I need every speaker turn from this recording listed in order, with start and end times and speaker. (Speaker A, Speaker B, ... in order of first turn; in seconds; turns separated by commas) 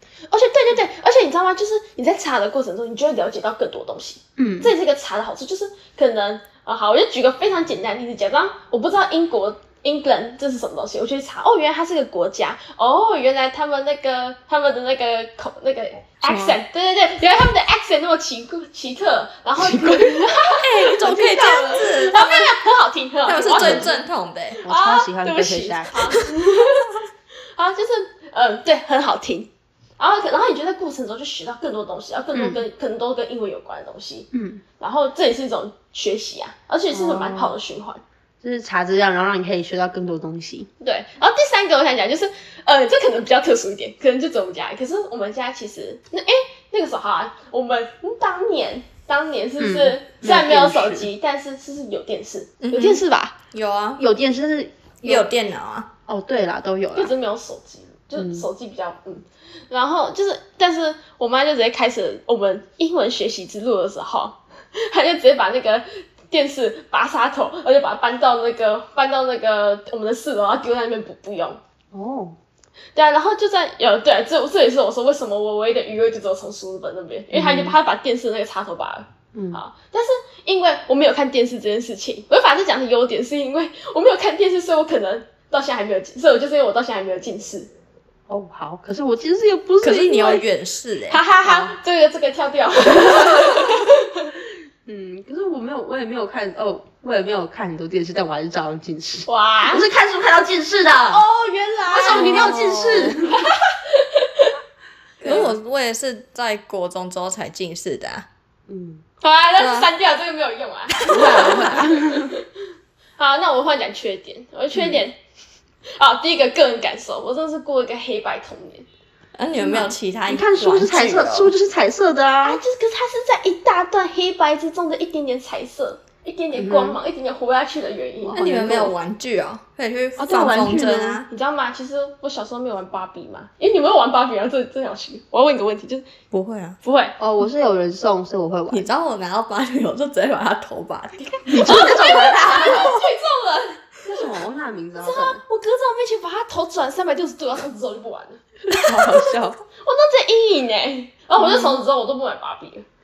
Speaker A: 0.3-23.9, Speaker B: 4.4-4.7, Speaker B: 16.2-16.6, Speaker B: 19.6-20.3, Speaker C: 20.5-22.6, Speaker C: 23.2-24.6, Speaker B: 23.5-23.9, Speaker B: 24.6-26.2, Speaker A: 24.6-26.9, Speaker A: 27.6-38.0, Speaker B: 32.3-32.6, Speaker B: 34.3-34.6, Speaker B: 36.9-37.5, Speaker B: 38.4-40.7, Speaker A: 40.8-53.3, Speaker B: 49.6-51.1, Speaker C: 52.6-53.0, Speaker C: 53.5-54.0, Speaker B: 54.0-55.3, Speaker C: 55.0-55.9, Speaker B: 56.1-57.1, Speaker A: 56.9-71.6, Speaker B: 58.1-58.5, Speaker B: 71.9-72.3, Speaker A: 72.9-87.7, Speaker B: 77.3-77.8, Speaker B: 79.3-79.6, Speaker B: 88.3-90.4, Speaker C: 89.8-91.2, Speaker A: 91.1-94.3, Speaker B: 91.4-91.8, Speaker B: 92.9-93.8, Speaker B: 94.8-101.2, Speaker A: 99.3-99.8, Speaker A: 101.1-102.6, Speaker B: 101.9-103.5, Speaker C: 102.0-103.2, Speaker A: 103.2-104.6, Speaker C: 105.2-108.3, Speaker B: 105.2-105.5, Speaker B: 108.7-109.0, Speaker A: 109.2-112.4, Speaker C: 109.6-109.9, Speaker B: 111.1-112.3, Speaker A: 113.2-115.2, Speaker B: 114.7-115.0, Speaker A: 116.0-118.8, Speaker C: 119.3-121.5, Speaker B: 119.6-122.6, Speaker A: 122.4-128.4, Speaker B: 126.5-127.0, Speaker B: 128.2-128.9, Speaker C: 128.3-131.3, Speaker B: 130.2-131.2, Speaker A: 131.3-136.1, Speaker C: 136.3-136.8, Speaker A: 136.8-137.2, Speaker B: 137.2-138.9, Speaker C: 138.7-141.3, Speaker A: 141.2-144.4, Speaker B: 141.5-143.1, Speaker B: 144.1-145.4, Speaker A: 145.0-149.2, Speaker B: 148.7-149.6, Speaker A: 149.8-152.8, Speaker B: 151.4-151.8